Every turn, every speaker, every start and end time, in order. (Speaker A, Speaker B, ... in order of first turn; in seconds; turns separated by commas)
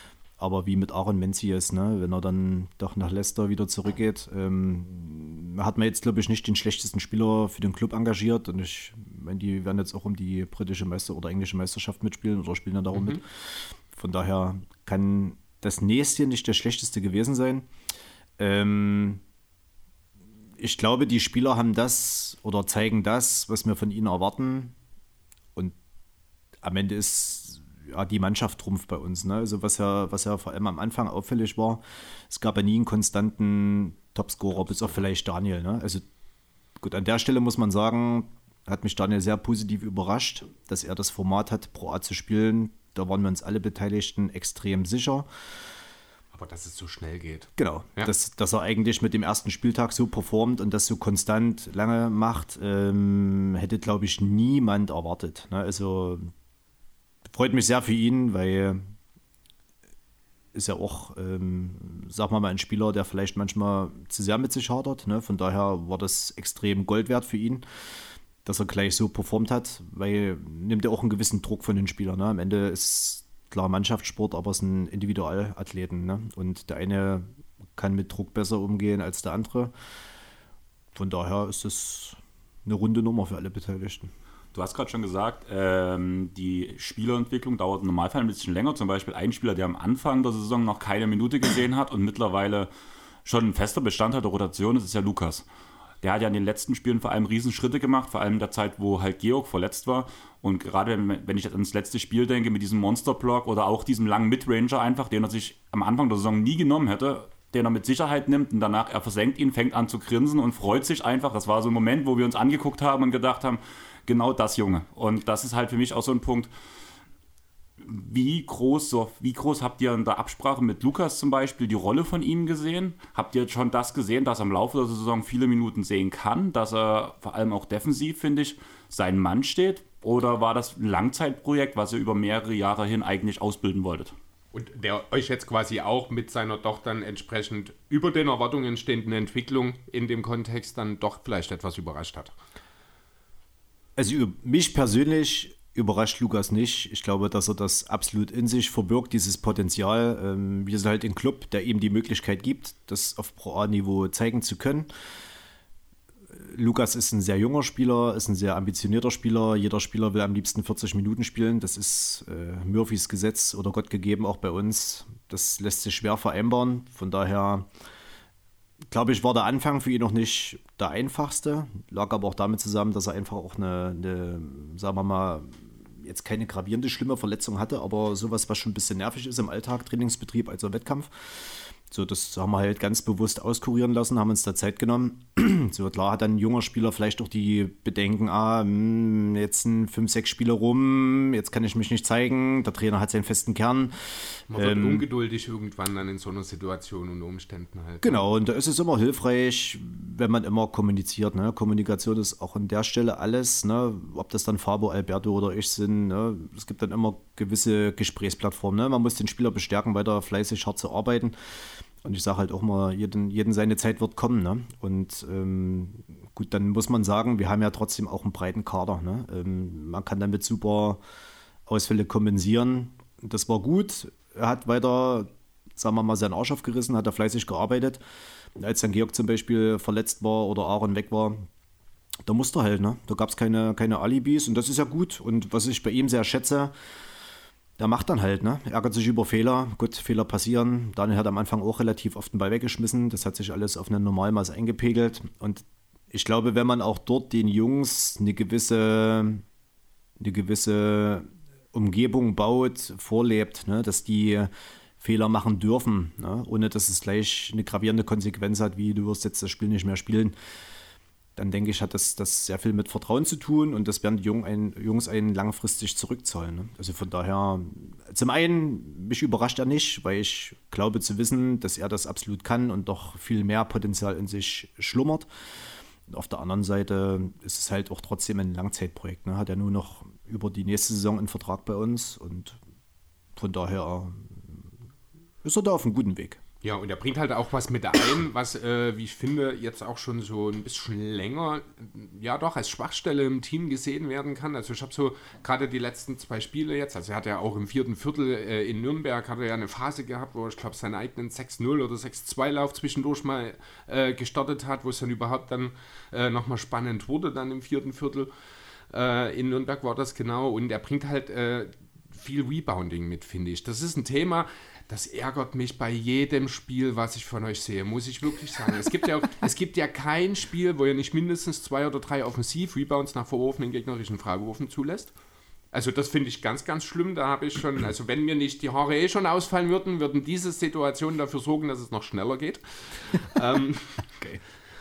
Speaker A: 0.4-17.7, Speaker B: 12.9-13.2, Speaker A: 18.4-19.2, Speaker A: 20.6-24.7, Speaker A: 26.6-36.0, Speaker B: 34.7-35.0, Speaker A: 36.8-45.3, Speaker B: 46.3-48.1, Speaker A: 47.6-56.3, Speaker A: 57.3-58.8, Speaker A: 60.5-79.7, Speaker A: 80.9-84.1, Speaker C: 84.5-92.7, Speaker C: 93.2-95.4, Speaker C: 96.0-116.5, Speaker C: 117.8-134.1, Speaker B: 134.5-142.3, Speaker A: 143.9-154.9, Speaker A: 156.3-167.7, Speaker A: 168.9-195.0, Speaker B: 194.5-198.2, Speaker A: 198.0-221.0, Speaker A: 221.7-228.0, Speaker A: 228.6-231.5, Speaker A: 232.2-236.7, Speaker A: 237.8-249.4, Speaker A: 250.2-260.3, Speaker A: 261.4-275.3, Speaker A: 276.1-282.6, Speaker A: 283.4-284.7, Speaker A: 285.4-286.4, Speaker B: 286.6-308.3, Speaker B: 308.9-325.1, Speaker B: 325.7-334.1